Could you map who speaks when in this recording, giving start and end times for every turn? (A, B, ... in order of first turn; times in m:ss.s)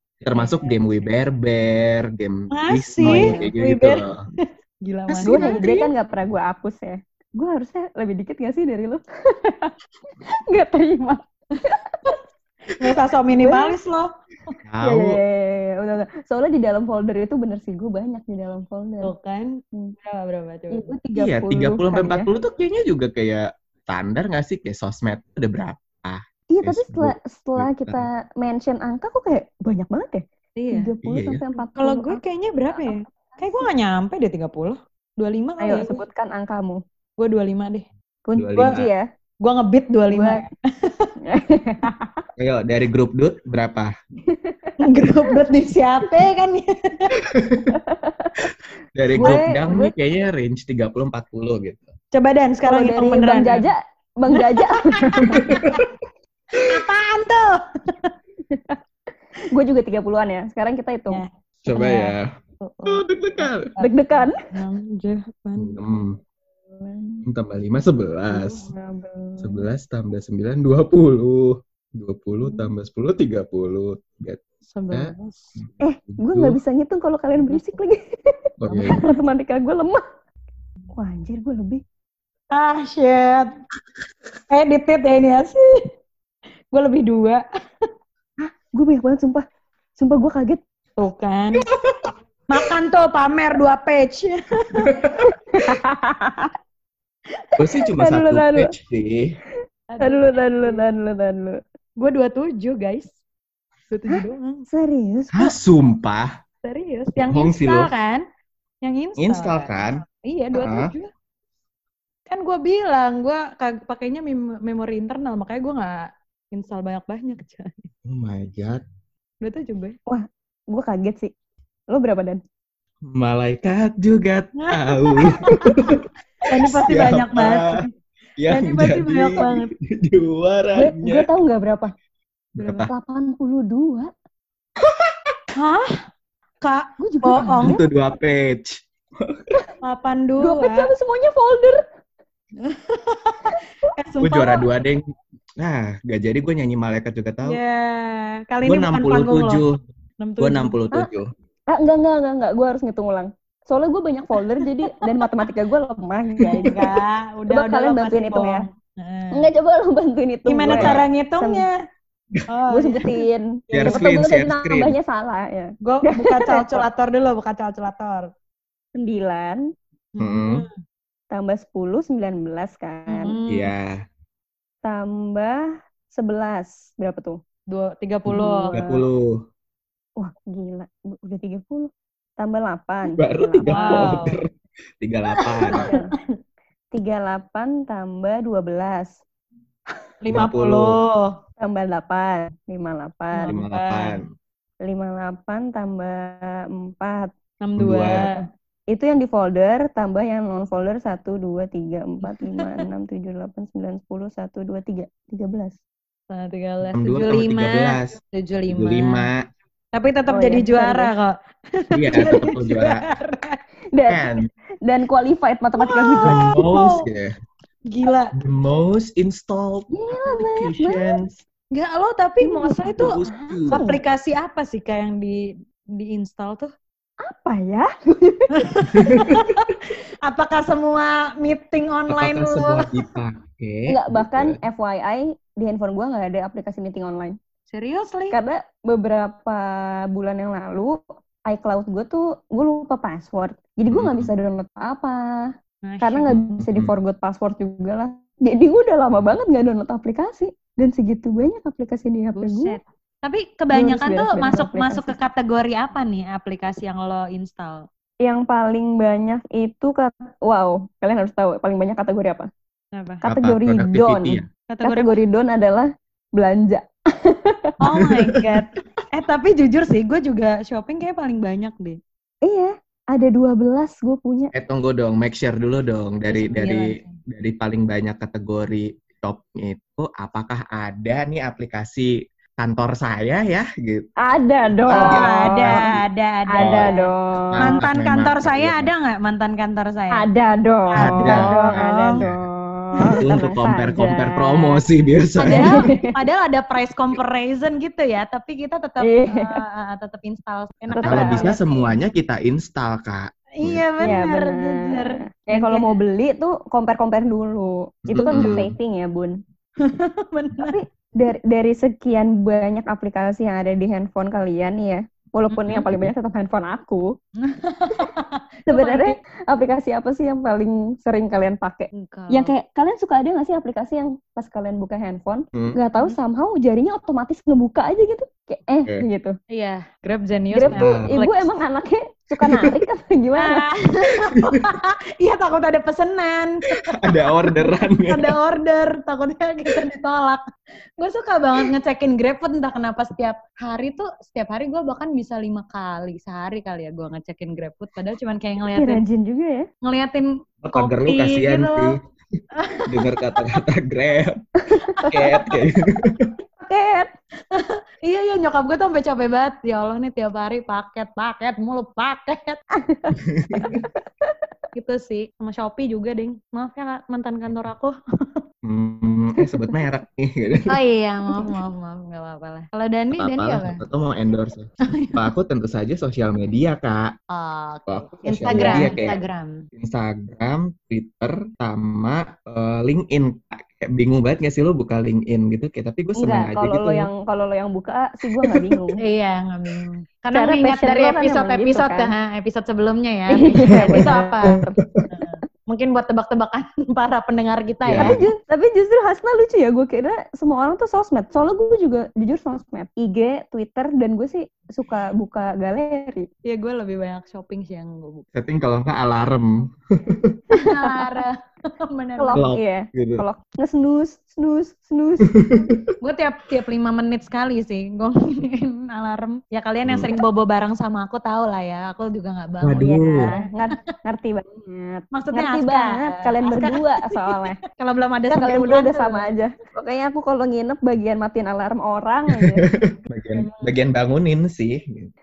0:00.2-0:04.2 A
0:00.3-0:01.1 B
0:02.5-0:05.6 B
0:03.0-0:03.5 C
0:05.1-0:05.9 A
0:05.2-0:09.7 C
0:10.3-0:12.2 C
0:12.8-0:14.1 B
0:13.4-0:13.8 C
0:14.7-0:15.2 A
0:14.8-0:19.1 C
0:19.0-0:20.9 B
0:20.7-0:22.3 C
0:21.2-0:28.1 A
0:26.5-0:32.2 C
0:30.6-0:30.9 B
0:31.0-0:31.4 A
0:31.8-0:36.0 B
0:32.7-0:33.6 C
0:35.6-0:36.8 C
0:37.2-0:37.9 B
0:38.3-0:39.0 C
0:38.4-0:38.9 A
0:39.4-0:41.1 B
0:40.1-0:40.5 C
0:41.3-0:42.2 C
0:42.4-0:43.9 A
0:44.3-0:45.3 C
0:44.8-0:47.1 B
0:47.2-0:47.8 A
0:47.7-0:48.5 C
0:48.4-0:51.9 A
0:49.1-0:49.9 C
0:49.2-0:49.5 B
0:52.1-0:53.7 B
0:52.7-0:55.5 C
0:54.3-0:55.8 B
0:55.3-0:56.0 A
0:56.6-0:58.1 B
0:58.5-0:58.8 C
0:59.5-1:01.2 C
1:01.1-1:03.0 B
1:01.7-1:02.3 A
1:02.9-1:03.7 A
1:03.8-1:05.8 B
1:03.8-1:04.4 C
1:05.6-1:06.2 A
1:06.7-1:07.2 C
1:07.2-1:08.7 A
1:08.3-1:09.7 C
1:09.4-1:16.6 A
1:14.7-1:15.5 B
1:15.8-1:18.0 C
1:17.4-1:17.8 B
1:18.6-1:19.0 A
1:18.7-1:20.0 C
1:18.8-1:19.2 B
1:20.9-1:21.8 C
1:22.5-1:23.6 B
1:24.5-1:25.8 B
1:26.7-1:27.4 B
1:28.4-1:29.5 C
1:30.0-1:30.6 C
1:31.0-1:31.7 B
1:31.7-1:32.1 A
1:32.5-1:34.9 B
1:34.8-1:35.3 A
1:35.5-1:36.5 C
1:37.6-1:39.4 A
1:38.0-1:38.7 C
1:39.9-1:40.8 B
1:40.0-1:41.6 C
1:42.0-1:43.1 B
1:43.9-1:44.7 B
1:44.1-1:45.5 C
1:45.3-1:46.3 A
1:46.6-1:48.2 B
1:47.3-1:47.9 A
1:48.8-1:51.1 B
1:49.2-1:50.0 A
1:50.5-1:50.9 A
1:52.3-1:57.9 B
1:58.1-1:58.8 A
1:59.4-2:00.0 B
2:00.1-2:01.3 C
2:01.9-2:02.4 C
2:03.1-2:07.7 A
2:04.6-2:05.9 B
2:06.4-2:07.9 B
2:08.4-2:11.3 A
2:08.5-2:09.7 B
2:08.8-2:09.5 C
2:10.8-2:11.9 C
2:12.6-2:12.9 A
2:12.7-2:14.1 C
2:14.8-2:15.3 A
2:15.6-2:16.0 B
2:16.6-2:17.8 B
2:17.0-2:17.8 C
2:17.4-2:19.6 A
2:19.8-2:20.9 B
2:20.4-2:21.8 C
2:22.6-2:24.7 B
2:24.2-2:27.6 A
2:27.4-2:29.6 B
2:28.6-2:29.9 A
2:30.2-2:30.7 B
2:30.4-2:31.3 A
2:31.7-2:36.9 C
2:34.6-2:35.0 B
2:36.4-2:36.9 A
2:36.5-2:39.5 B
2:37.5-2:38.6 C
2:39.3-2:41.7 C
2:40.5-2:41.7 B
2:40.7-2:41.0 A
2:42.5-2:43.2 B
2:42.7-2:46.8 C
2:43.7-2:44.1 B
2:43.7-2:45.0 A
2:45.8-2:48.3 B
2:49.0-2:49.6 C
2:50.2-2:50.8 B
2:50.2-2:50.6 A
2:51.3-2:53.4 C
2:53.1-2:53.7 B
2:53.5-2:54.0 A
2:54.8-2:57.4 C
2:57.7-2:59.0 B
2:58.3-2:59.4 A
2:58.4-2:58.8 C
3:00.2-3:04.2 C
3:03.1-3:04.5 A
3:03.7-3:04.4 B
3:05.0-3:05.9 A
3:05.4-3:06.3 B
3:05.7-3:06.1 C
3:06.9-3:09.2 C
3:10.2-3:11.3 B
3:10.3-3:11.0 A
3:11.6-3:13.6 C
3:13.3-3:14.2 B
3:13.5-3:14.3 A
3:14.9-3:17.3 C
3:17.6-3:18.4 B
3:17.8-3:18.3 A
3:18.9-3:25.8 C
3:22.2-3:22.9 B
3:26.3-3:29.3 B
3:26.9-3:28.2 A
3:28.7-3:29.4 A
3:29.9-3:33.6 B
3:30.3-3:31.1 C
3:31.9-3:33.0 A
3:33.9-3:34.3 C
3:34.1-3:34.4 A
3:34.8-3:36.5 C
3:35.8-3:37.1 B
3:36.3-3:37.3 A
3:37.9-3:38.4 B
3:38.4-3:41.4 A
3:39.9-3:41.2 C
3:41.7-3:43.2 B
3:42.4-3:44.0 C
3:43.0-3:43.8 A
3:43.7-3:46.7 B
3:47.2-3:48.8 C
3:48.6-3:53.0 B
3:48.9-3:49.6 A
3:52.1-3:54.6 A
3:53.9-3:57.4 C
3:57.7-3:58.4 B
3:58.3-4:12.8 C
4:03.9-4:04.3 A
4:05.8-4:06.3 B
4:06.3-4:06.9 A
4:12.4-4:17.9 B
4:13.7-4:15.2 C
4:18.2-4:22.5 C
4:22.9-4:23.2 B
4:23.2-4:27.7 C
4:23.3-4:24.5 A
4:24.7-4:25.2 B
4:27.8-4:32.0 B
4:28.0-4:28.6 A
4:32.4-4:34.5 C
4:34.5-4:44.1 A
4:36.3-4:37.2 B
4:44.2-4:45.9 C
4:44.8-4:46.0 A
4:44.9-4:50.3 B
4:46.5-4:47.8 C
4:46.6-4:46.9 A
4:47.5-4:48.9 A
4:50.1-4:54.8 C
4:50.9-4:52.2 B
4:51.0-4:52.4 A
4:53.1-4:55.7 A
4:55.4-5:01.9 B
4:55.5-4:56.1 C
4:59.0-4:59.6 C
5:00.9-5:01.5 C
5:01.0-5:04.2 A
5:03.6-5:06.0 B
5:04.0-5:09.4 C
5:08.1-5:08.7 A
5:08.2-5:08.6 B
5:09.8-5:10.8 B
5:10.7-5:17.1 C
5:15.5-5:15.9 B
5:15.7-5:16.1 A
5:17.4-5:19.2 B
5:18.7-5:29.3 C
5:21.9-5:22.5 B
5:29.5-5:31.5 B
5:30.5-5:33.6 C
5:30.7-5:31.2 A
5:32.4-5:32.8 A
5:33.4-5:40.4 B
5:34.4-5:34.7 A
5:37.0-5:38.3 A
5:41.0-5:49.0 B
5:48.8-5:49.7 C
5:49.8-5:52.0 B
5:50.6-5:52.0 A
5:52.6-5:53.4 B
5:52.9-5:54.4 A
5:54.7-5:55.4 C
5:54.9-5:55.5 B
5:55.1-5:56.3 A
5:56.6-5:57.1 C
5:57.5-6:02.6 B
6:02.8-6:03.6 C
6:03.2-6:03.9 A
6:04.8-6:08.0 B
6:08.6-6:10.7 A
6:09.4-6:09.8 C
6:10.7-6:13.8 B
6:13.2-6:17.1 A
6:14.9-6:15.2 B
6:17.3-6:19.7 B
6:17.9-6:19.2 A
6:18.4-6:19.0 C
6:19.7-6:27.1 A
6:26.2-6:29.0 C
6:28.4-6:28.8 A
6:29.0-6:34.6 B
6:30.3-6:32.1 C
6:33.3-6:34.8 C
6:33.7-6:35.1 A
6:35.1-6:38.2 B
6:37.8-6:38.2 A
6:38.0-6:46.3 C
6:46.5-6:48.3 B
6:48.4-6:50.3 A
6:50.5-6:52.4 B
6:50.7-6:51.1 C
6:52.2-6:55.5 C
6:52.3-6:53.2 A
6:55.4-6:55.8 A
6:56.0-7:03.8 B
7:02.6-7:03.3 A
7:02.8-7:07.6 C
7:05.1-7:09.3 B
7:08.3-7:12.6 C
7:12.3-7:15.1 A
7:13.4-7:13.7 B